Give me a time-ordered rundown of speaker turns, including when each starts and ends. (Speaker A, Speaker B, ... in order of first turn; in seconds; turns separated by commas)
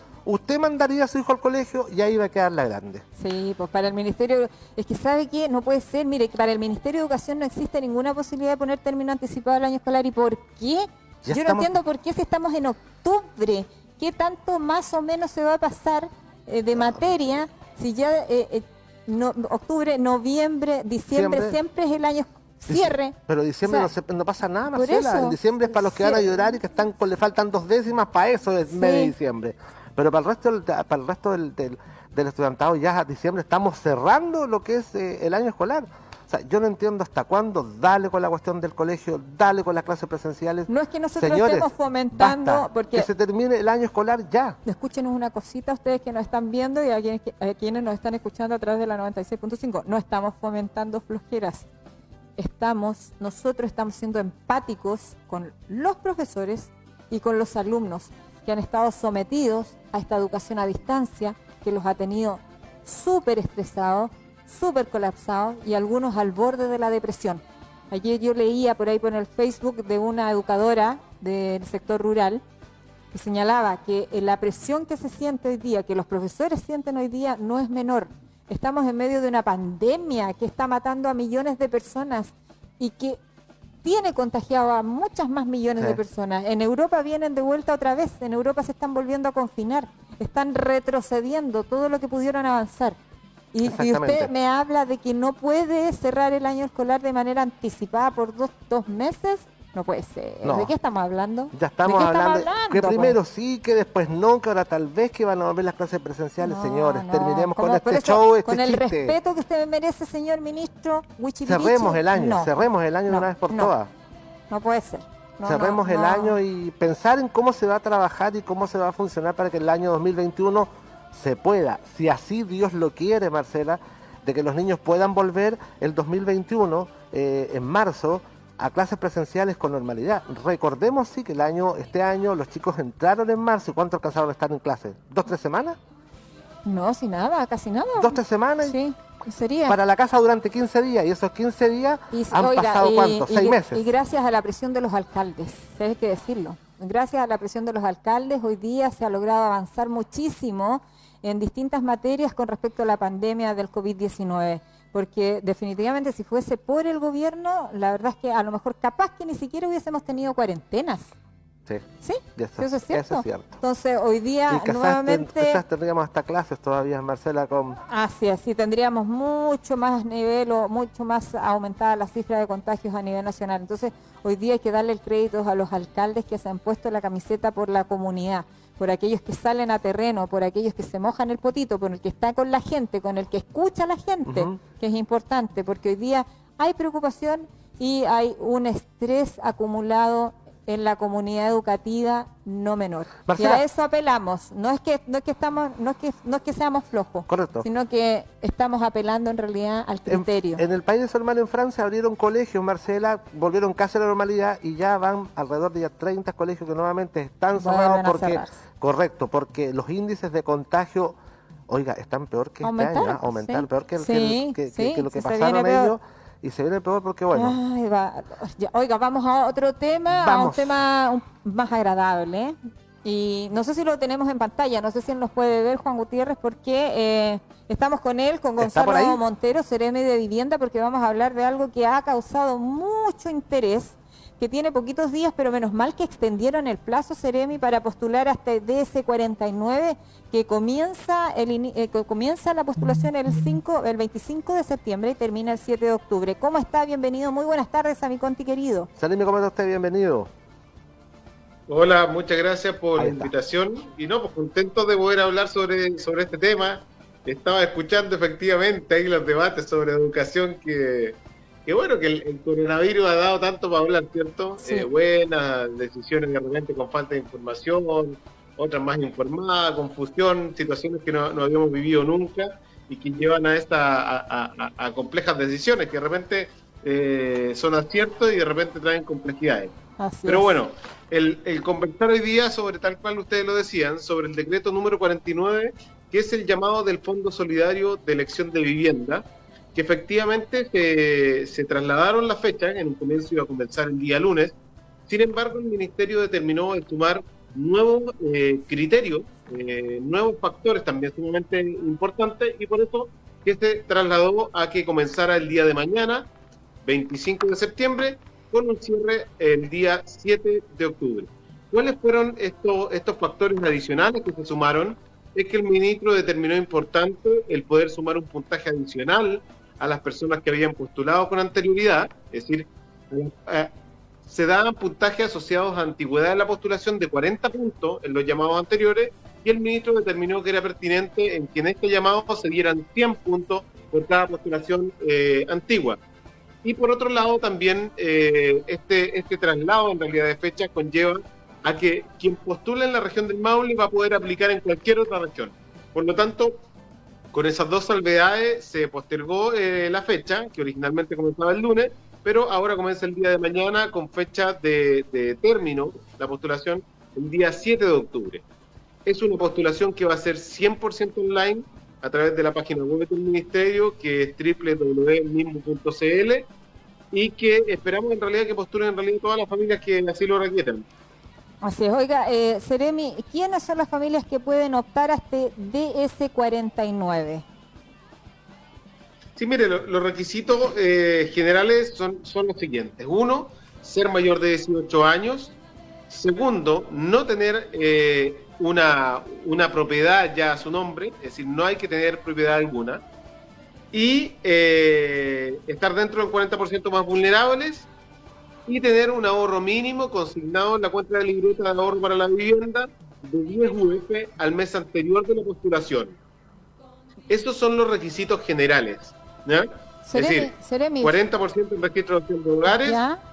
Speaker A: 0.2-3.0, Speaker B: 3.2-23.9, Speaker A: 11.2-11.7, Speaker A: 16.8-17.1, Speaker A: 21.1-21.6, Speaker A: 22.7-44.6, Speaker B: 24.7-26.3, Speaker B: 28.7-29.1, Speaker B: 40.7-43.1, Speaker B: 44.6-51.7, Speaker B: 52.4-72.4, Speaker B: 73.1-83.2, Speaker B: 83.8-93.0, Speaker B: 93.5-103.2, Speaker A: 93.6-94.3, Speaker A: 100.4-100.7, Speaker A: 101.5-109.2, Speaker B: 106.4-113.7, Speaker A: 111.5-113.9, Speaker B: 114.5-116.4, Speaker A: 115.4-135.8, Speaker B: 136.7-139.8, Speaker A: 138.0-138.8, Speaker A: 139.7-143.9, Speaker B: 142.1-161.1, Speaker B: 162.0-165.6, Speaker A: 162.4-163.6, Speaker A: 164.5-167.8, Speaker B: 167.9-200.6, Speaker A: 184.3-184.6, Speaker A: 193.3-193.6, Speaker A: 197.3-197.7, Speaker A: 200.1-211.2, Speaker B: 207.6-208.6, Speaker A: 211.7-217.6, Speaker B: 212.6-215.9, Speaker B: 217.3-248.9, Speaker A: 220.2-220.8, Speaker A: 228.6-229.2, Speaker A: 249.0-250.3, Speaker C: 251.7-279.8, Speaker A: 253.0-253.3, Speaker B: 264.6-264.9, Speaker B: 280.0-280.6, Speaker C: 280.3-294.6, Speaker C: 295.1-306.3, Speaker C: 306.8-323.7, Speaker C: 324.3-336.0, Speaker C: 336.6-346.6, Speaker C: 347.3-358.4, Speaker C: 359.1-366.5, Speaker C: 367.1-370.9, Speaker B: 371.6-377.4, Speaker C: 379.4-385.6, Speaker C: 386.1-393.0, Speaker C: 393.9-397.9, Speaker C: 398.7-406.2, Speaker C: 407.3-413.0, Speaker B: 410.1-411.2, Speaker B: 412.7-413.2